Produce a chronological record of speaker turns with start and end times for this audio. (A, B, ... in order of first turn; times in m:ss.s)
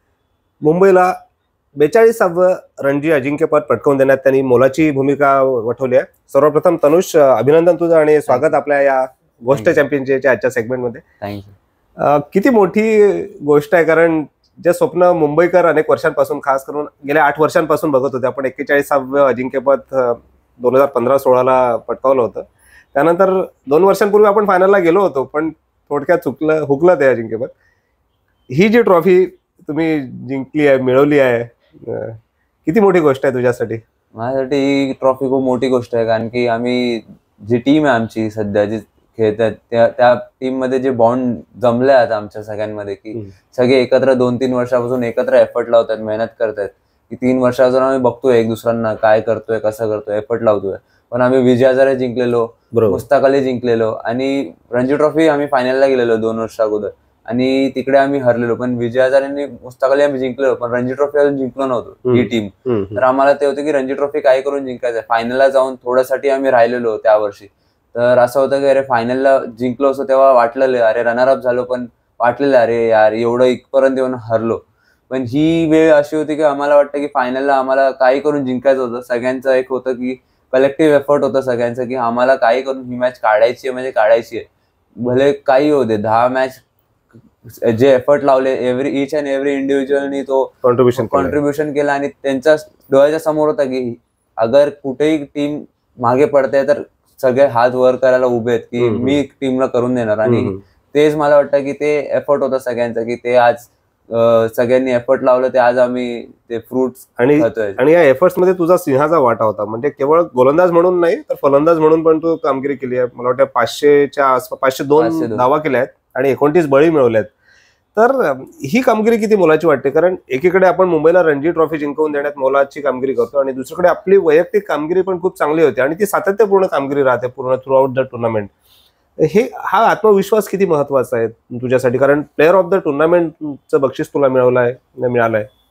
0:00.6-0:01.1 A
0:01.8-0:11.0 A
0:11.2-0:11.6 B
0:12.0-0:27.5 A
0:28.5-0:33.8 A
0:34.1-1:24.4 B
0:52.7-0:53.0 A
1:02.1-1:03.0 A
1:25.0-1:26.6 B
1:27.5-1:47.8 B
1:30.6-1:31.4 A
1:38.8-1:39.2 A
1:40.2-1:40.6 A
1:47.2-1:57.3 A
1:55.0-1:55.4 B
1:58.0-2:08.5 A
2:09.2-2:15.5 A